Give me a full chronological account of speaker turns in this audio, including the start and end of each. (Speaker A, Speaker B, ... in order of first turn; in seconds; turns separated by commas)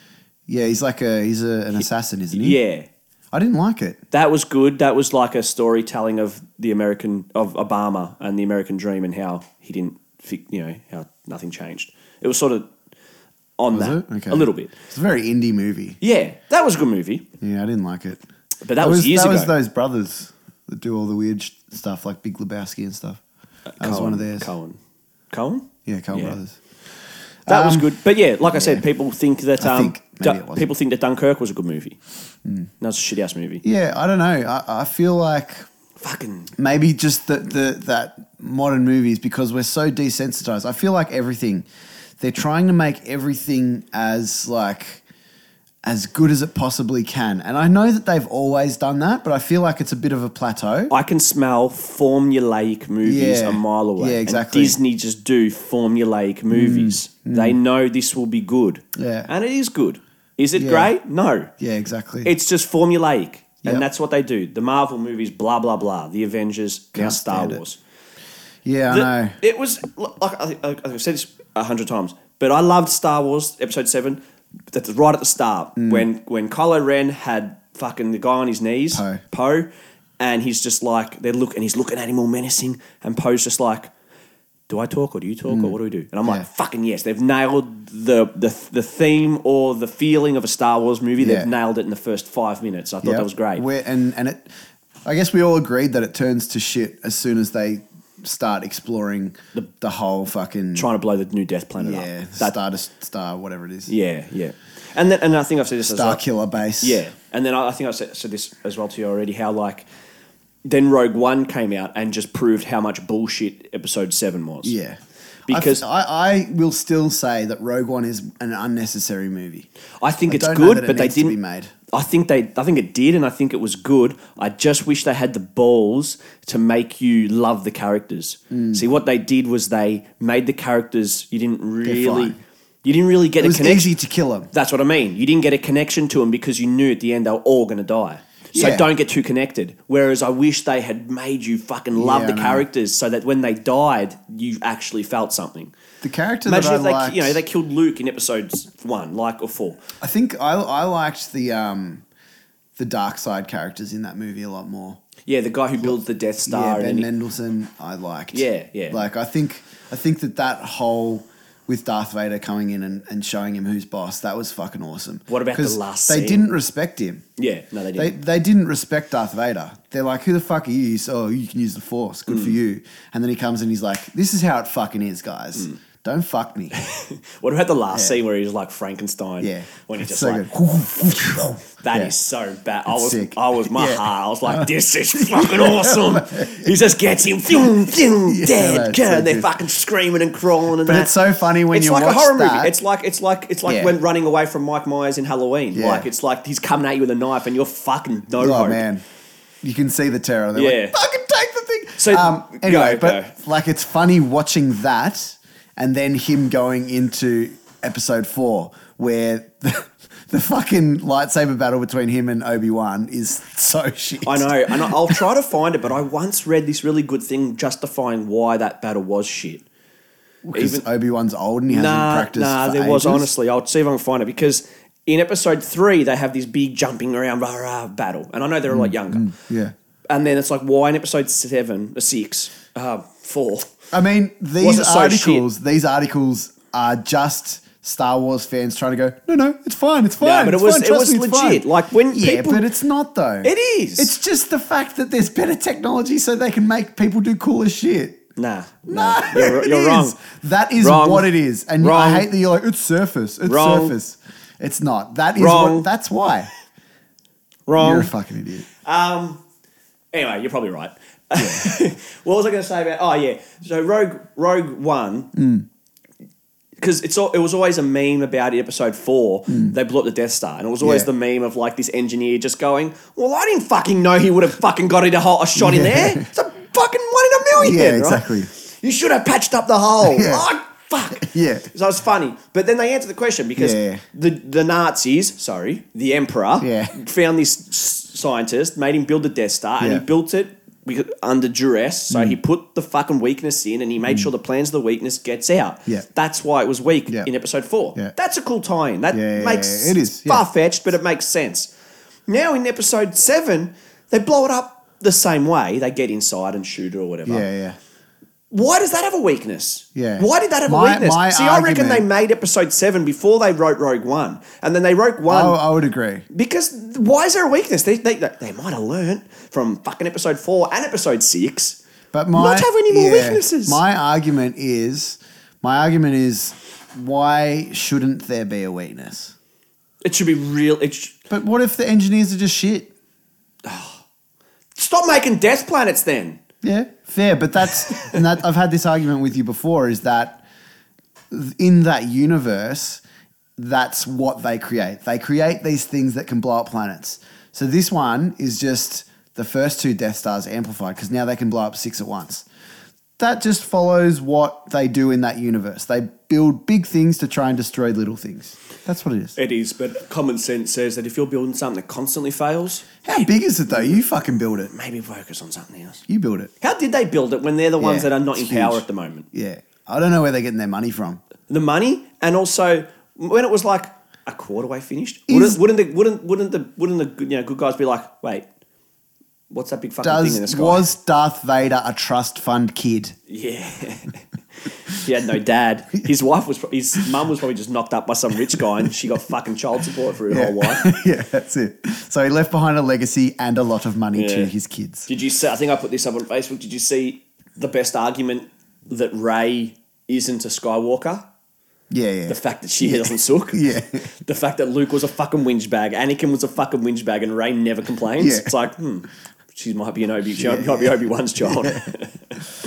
Speaker A: 0.5-2.6, Speaker B: 2.3-2.9, Speaker A: 3.3-4.0, Speaker B: 4.1-12.7, Speaker B: 13.6-14.7, Speaker A: 13.7-16.0, Speaker B: 16.0-17.2, Speaker A: 17.4-18.2, Speaker B: 18.6-19.5, Speaker A: 18.8-23.2, Speaker B: 23.7-24.8, Speaker A: 23.8-24.5, Speaker B: 25.3-26.4, Speaker A: 25.9-26.6, Speaker A: 27.4-27.9, Speaker B: 27.5-32.0, Speaker A: 28.5-28.8, Speaker A: 29.6-30.7, Speaker B: 32.8-33.6, Speaker A: 33.6-35.7, Speaker B: 36.0-36.5, Speaker A: 36.6-41.7, Speaker A: 42.2-45.0, Speaker A: 45.8-50.9, Speaker B: 50.9-61.5, Speaker A: 53.0-54.8, Speaker A: 56.5-57.6, Speaker A: 58.9-59.3, Speaker A: 60.5-60.9, Speaker A: 61.6-62.3, Speaker B: 62.2-67.8, Speaker A: 66.9-67.6, Speaker A: 68.6-69.3, Speaker B: 68.9-74.2, Speaker B: 74.7-79.7, Speaker A: 75.8-76.1, Speaker A: 78.9-79.2, Speaker B: 80.2-83.9, Speaker B: 84.7-93.6, Speaker A: 85.5-85.7, Speaker A: 91.2-91.5, Speaker A: 93.0-94.5, Speaker A: 95.0-100.9, Speaker B: 100.7-102.5, Speaker A: 101.8-103.9, Speaker B: 103.9-106.2, Speaker A: 105.9-107.0, Speaker B: 106.8-109.8, Speaker B: 110.6-114.8, Speaker A: 114.6-115.0, Speaker B: 115.5-115.8, Speaker A: 115.5-119.7, Speaker B: 120.0-121.3, Speaker A: 120.3-121.7, Speaker B: 121.9-133.9, Speaker A: 128.5-128.8, Speaker A: 131.8-132.4, Speaker A: 133.4-134.5, Speaker B: 134.5-145.7, Speaker A: 138.5-138.9, Speaker A: 141.9-142.7, Speaker A: 146.0-147.4, Speaker B: 146.4-149.8, Speaker A: 150.0-152.0, Speaker A: 152.8-155.0, Speaker B: 155.2-157.1, Speaker A: 155.8-167.2, Speaker B: 158.3-159.0, Speaker B: 165.3-166.5, Speaker B: 167.4-168.1, Speaker A: 167.9-176.7, Speaker B: 172.3-172.6, Speaker B: 176.7-191.1, Speaker A: 177.9-178.2, Speaker A: 179.4-182.1, Speaker A: 182.9-186.7, Speaker A: 188.3-189.5, Speaker A: 190.8-192.7, Speaker B: 191.7-198.8, Speaker A: 193.7-193.9, Speaker A: 195.7-196.1, Speaker A: 198.4-199.0, Speaker A: 199.6-215.2, Speaker B: 200.5-201.0, Speaker B: 202.0-203.3, Speaker B: 214.2-219.7, Speaker A: 220.4-223.3, Speaker B: 220.5-220.8, Speaker B: 221.7-229.3, Speaker A: 228.7-229.7, Speaker B: 230.1-233.7, Speaker A: 233.9-248.2, Speaker B: 234.6-235.4, Speaker B: 240.2-242.7, Speaker B: 243.4-244.1, Speaker B: 248.3-250.2, Speaker A: 248.9-256.5, Speaker B: 250.8-252.3, Speaker B: 253.4-253.9, Speaker B: 255.3-255.9, Speaker B: 257.7-258.1, Speaker A: 257.8-258.6, Speaker B: 258.8-259.4, Speaker B: 260.1-265.3, Speaker A: 261.4-261.7, Speaker A: 265.3-265.6, Speaker B: 266.8-301.7, Speaker A: 270.8-271.1, Speaker A: 275.6-276.2, Speaker A: 277.6-278.5, Speaker A: 280.0-280.4, Speaker A: 281.2-281.7, Speaker A: 283.6-284.0, Speaker A: 286.6-286.9, Speaker A: 292.1-292.4, Speaker A: 299.1-300.4, Speaker B: 302.3-307.5, Speaker A: 307.2-307.8, Speaker B: 308.5-315.6, Speaker A: 309.9-312.0, Speaker A: 315.3-316.2, Speaker B: 316.3-321.8, Speaker A: 322.1-329.3, Speaker B: 322.3-323.8, Speaker B: 330.0-331.1, Speaker A: 331.3-332.9, Speaker B: 333.6-334.0, Speaker B: 334.8-336.4, Speaker A: 336.6-340.4, Speaker B: 337.9-338.2, Speaker A: 341.3-343.0, Speaker A: 343.6-352.4, Speaker A: 353.2-359.4, Speaker B: 359.4-364.0, Speaker A: 363.0-364.7, Speaker B: 364.6-366.0, Speaker A: 366.1-366.5, Speaker B: 366.6-369.3, Speaker A: 367.8-371.2, Speaker B: 371.5-378.5, Speaker A: 375.3-375.6, Speaker B: 379.5-380.9, Speaker A: 380.0-383.1, Speaker B: 383.3-384.2, Speaker B: 384.9-390.9, Speaker A: 390.3-395.1, Speaker B: 394.1-394.5, Speaker B: 395.1-401.2, Speaker A: 401.9-404.0, Speaker B: 402.3-412.4, Speaker A: 408.2-408.5, Speaker A: 410.3-411.9